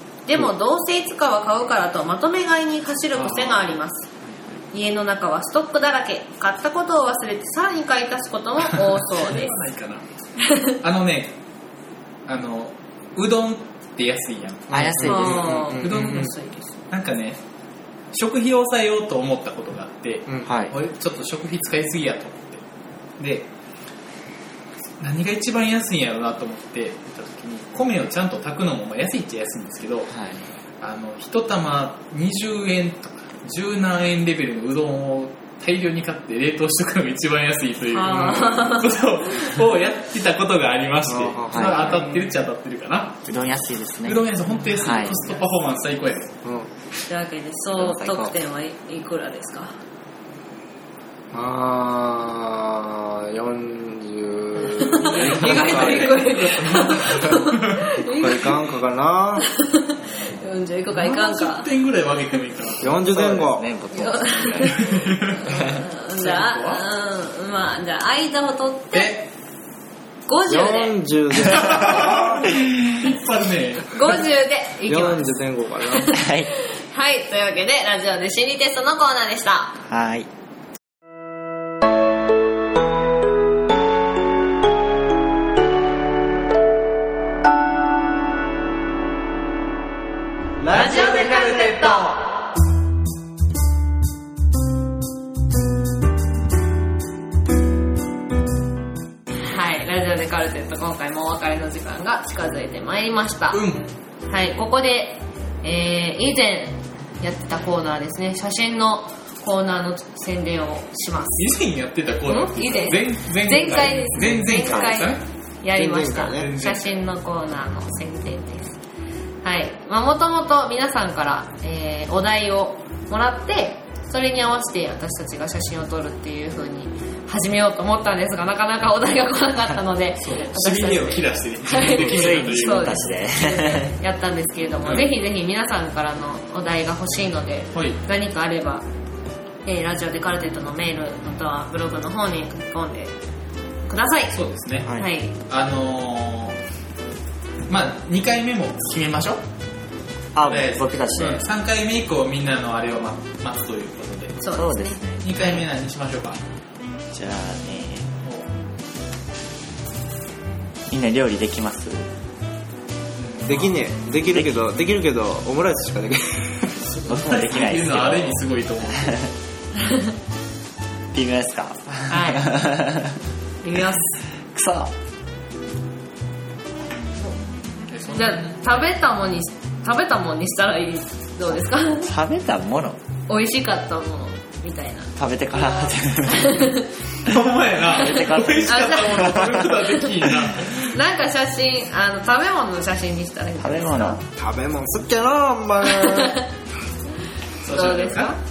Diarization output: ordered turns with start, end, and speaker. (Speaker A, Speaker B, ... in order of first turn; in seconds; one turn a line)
Speaker A: 0.2-4.1
Speaker B: 3.1-3.8
Speaker A: 4.7-9.6
Speaker B: 8.7-10.0
Speaker A: 10.4-10.7
Speaker B: 10.7-11.3
Speaker B: 12.3-16.3
Speaker C: 14.7-15.7
Speaker D: 14.7-16.3
Speaker A: 15.0-16.7
Speaker B: 16.9-17.4
Speaker B: 18.1-22.6
Speaker C: 20.4-20.7
Speaker B: 23.2-23.5
Speaker B: 25.0-30.1
Speaker C: 30.1-30.5
Speaker B: 30.8-43.2
Speaker A: 37.9-39.5
Speaker D: 41.1-41.8
Speaker C: 41.5-42.1
Speaker A: 41.7-42.3
Speaker C: 43.2-45.2
Speaker B: 44.0-46.3
Speaker D: 46.4-46.7
Speaker A: 47.1-49.7
Speaker C: 47.8-48.3
Speaker D: 51.3-56.2
Speaker A: 54.6-58.6
Speaker B: 54.8-57.9
Speaker D: 58.0-59.5
Speaker A: 59.4-61.7
Speaker B: 60.0-62.9
Speaker D: 62.8-63.7
Speaker C: 62.8-65.8
Speaker A: 63.9-64.8
Speaker B: 64.7-66.8
Speaker A: 65.4-69.1
Speaker B: 68.9-69.3
Speaker A: 70.3-71.0
Speaker D: 70.5-72.5
Speaker B: 71.4-74.2
Speaker A: 73.8-79.8
Speaker D: 74.9-76.1
Speaker C: 76.1-76.5
Speaker C: 79.8-80.3
Speaker D: 90.6-92.2
Speaker A: 90.7-92.2
Speaker A: 99.4-103.6
Speaker B: 103.5-103.9
Speaker A: 104.3-111.5
Speaker B: 111.4-115.2
Speaker A: 112.3-118.8
Speaker D: 115.7-116.5
Speaker B: 116.2-116.8
Speaker A: 119.4-138.8
Speaker B: 130.2-133.0
Speaker C: 131.9-133.9
Speaker B: 134.8-135.1
Speaker B: 137.7-138.0
Speaker A: 139.6-143.1
Speaker A: 143.9-144.4
Speaker B: 144.3-146.6
Speaker A: 144.9-145.3
Speaker B: 147.7-149.4
Speaker C: 150.3-151.4
Speaker B: 150.4-154.4
Speaker A: 154.4-155.0
Speaker C: 154.5-155.6
Speaker B: 155.2-156.4
Speaker C: 157.1-158.1
Speaker C: 160.9-162.1
Speaker B: 163.2-163.7
Speaker D: 163.4-166.7
Speaker C: 164.3-164.6
Speaker B: 166.8-169.2
Speaker C: 167.1-169.3
Speaker A: 169.7-170.1
Speaker C: 171.1-173.2
Speaker A: 172.1-172.5
Speaker A: 173.6-174.2
Speaker C: 174.5-174.9
Speaker B: 177.9-178.9
Speaker A: 178.1-182.1
Speaker C: 181.5-183.0
Speaker A: 183.3-186.9
Speaker C: 185.2-186.7
Speaker B: 187.2-190.9
Speaker C: 187.9-190.7
Speaker A: 188.0-190.1
Speaker A: 190.6-194.2
Speaker C: 193.6-194.2
Speaker D: 194.3-196.4
Speaker A: 195.8-196.5
Speaker B: 197.6-198.4
Speaker A: 197.6-198.4